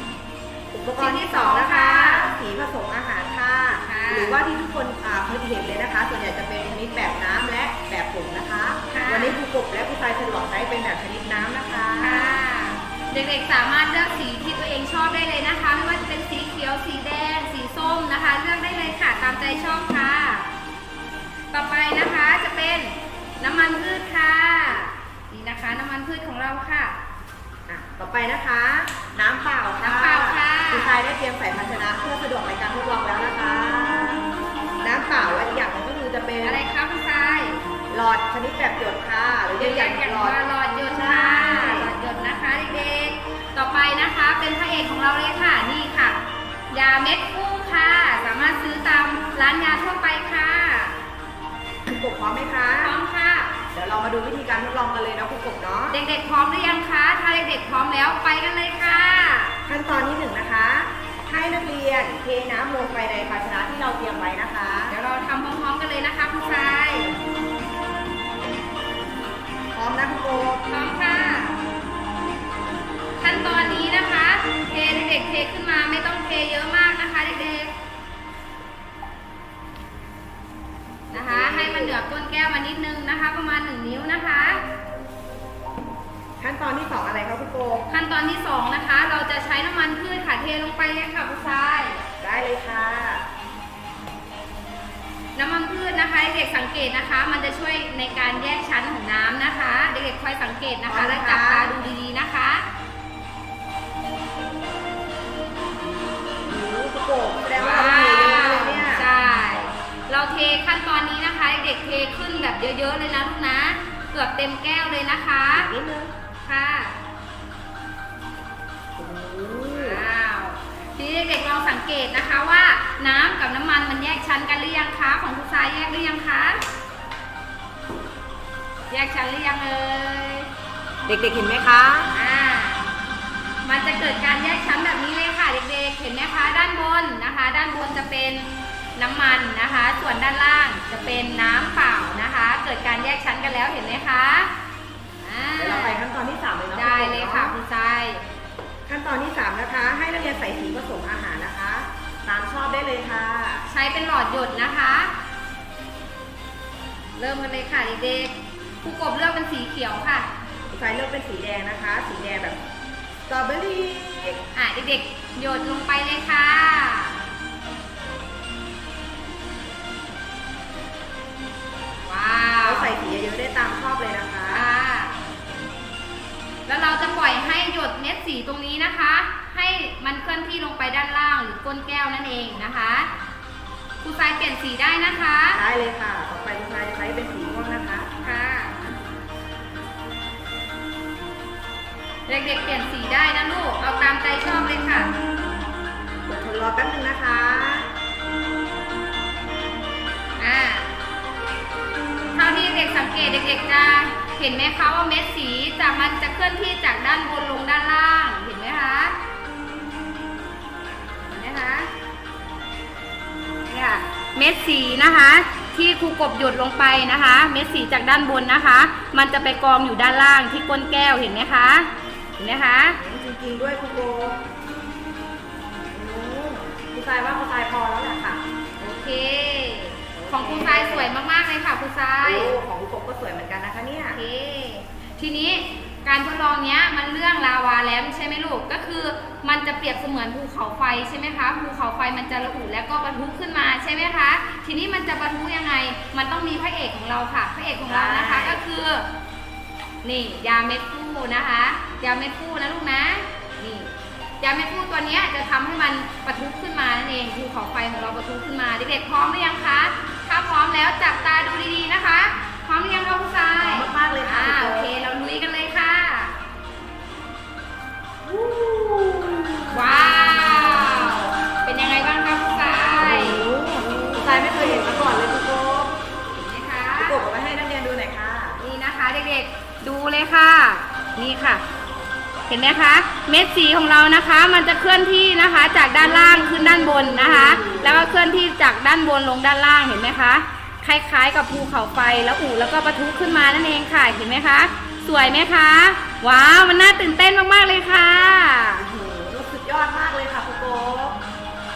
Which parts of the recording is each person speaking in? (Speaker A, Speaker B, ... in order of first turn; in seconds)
Speaker A: 0.7-12.4, 27.7-34.3, 34.8-36.6, 37.9-40.4, 40.9-41.9, 51.9-52.9, 53.7-56.0, 59.7-65.0, 69.7-70.6, 81.1-82.0, 86.4-87.9, 92.2-93.3, 100.9-101.8, 106.5-109.1, 115.6-116.1, 119.0-120.1, 131.1-132.1, 145.6-147.6, 148.9-153.7, 160.7-162.6, 163.3-164.4, 172.6-174.7, 185.6-188.1, 196.3-197.9, 223.0-224.4, 225.9-228.4, 230.1-231.1, 232.2-234.2, 247.8-248.6, 263.6-264.9, 268.2-270.3, 273.0-276.0, 277.0-278.6, 286.0-288.1, 298.8-301.2
Speaker B: 1.0-2.4, 3.8-4.4, 8.9-9.4, 12.0-20.5, 21.5-27.0, 29.8-31.0, 36.4-37.6, 39.6-46.2, 46.7-51.0, 52.8-53.5, 55.9-59.6, 64.9-67.2, 70.7-71.6, 73.2-77.7, 81.1-84.6, 87.9-92.0, 95.4-102.7, 107.6-115.7, 116.5-117.0, 119.7-126.6, 128.9-130.5, 132.1-132.8, 133.6-144.5, 145.2-146.0, 146.8-148.2, 153.7-155.1, 157.2-160.3, 164.6-167.2, 172.1-172.9, 174.5-175.2, 176.7-183.1, 184.0-185.6, 188.2-188.8, 192.3-195.1, 200.4-200.9, 202.3-209.2, 211.3-211.9, 213.7-223.0, 228.8-232.6, 234.1-249.1, 250.0-253.9, 254.4-266.4, 269.7-273.4, 276.4-277.2, 278.6-281.6, 282.5-298.9